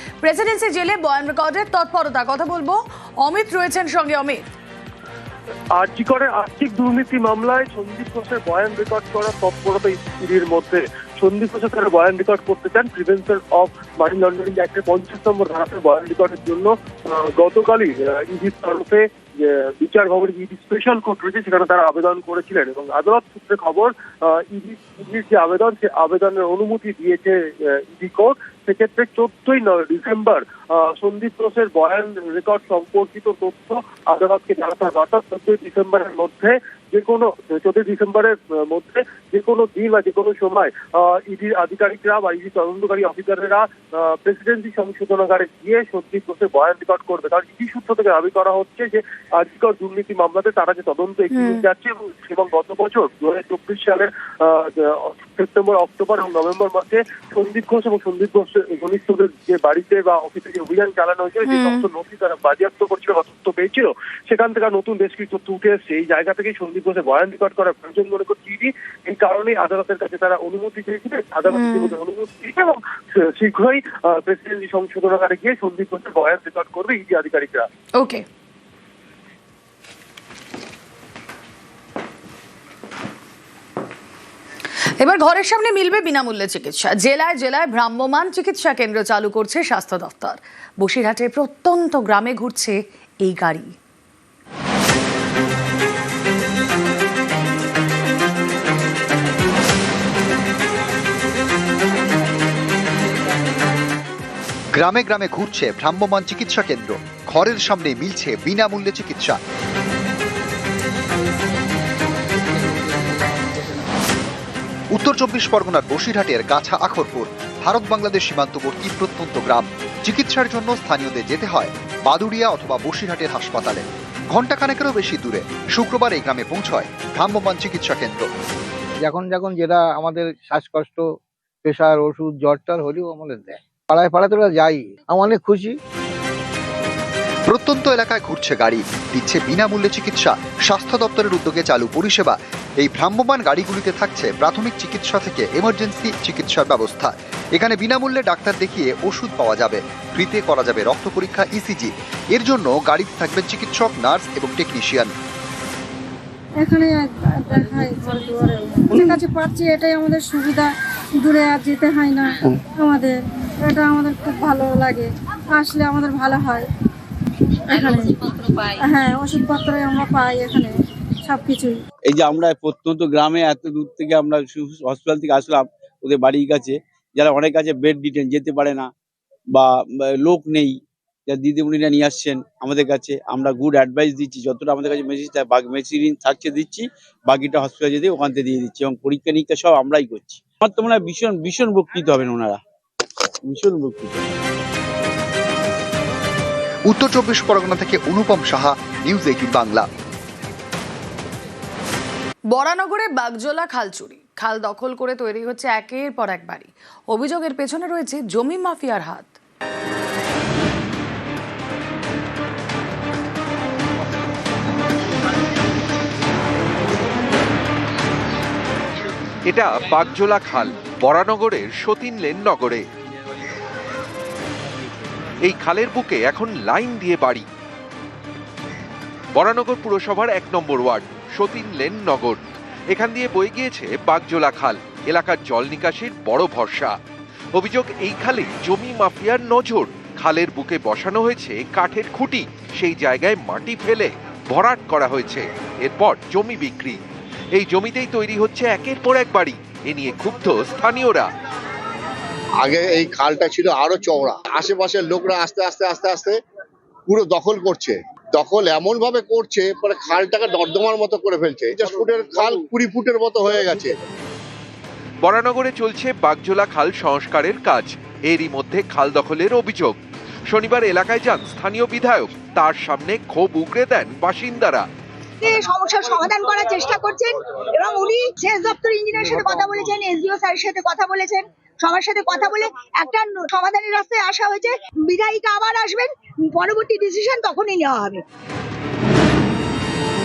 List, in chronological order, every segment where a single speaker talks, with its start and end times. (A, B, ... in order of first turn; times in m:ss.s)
0:00.2-0:04.4 A
0:05.8-1:17.7 B
0:51.3-0:51.6 A
1:01.4-1:01.9 A
1:11.5-1:12.0 A
1:18.0-1:18.2 A
1:25.0-1:33.8 A
1:44.7-1:49.4 C
1:54.9-2:08.3 C
2:09.0-2:11.1 D
2:11.6-2:15.8 D
2:17.5-2:35.1 C
2:36.6-2:40.6 E
2:38.9-2:39.2 F
2:41.3-2:42.3 E
2:42.8-2:43.1 E
2:43.7-2:45.1 E
2:45.6-2:46.6 E
2:47.7-2:48.2 E
2:48.8-2:50.7 E
2:51.3-2:51.7 E
2:51.6-2:58.9 F
2:59.5-3:12.6 F
3:13.4-3:14.3 F
3:16.9-3:19.9 C
3:22.5-3:29.4 A
3:39.5-3:42.8 G
3:45.4-3:47.5 G
3:49.4-3:52.4 G
3:52.9-3:57.0 G
3:57.6-4:07.0 G
4:07.6-4:11.3 G
4:12.6-4:16.4 H
4:17.1-4:23.9 H
4:25.2-4:30.0 G
4:30.5-4:34.8 G
4:35.4-4:48.2 I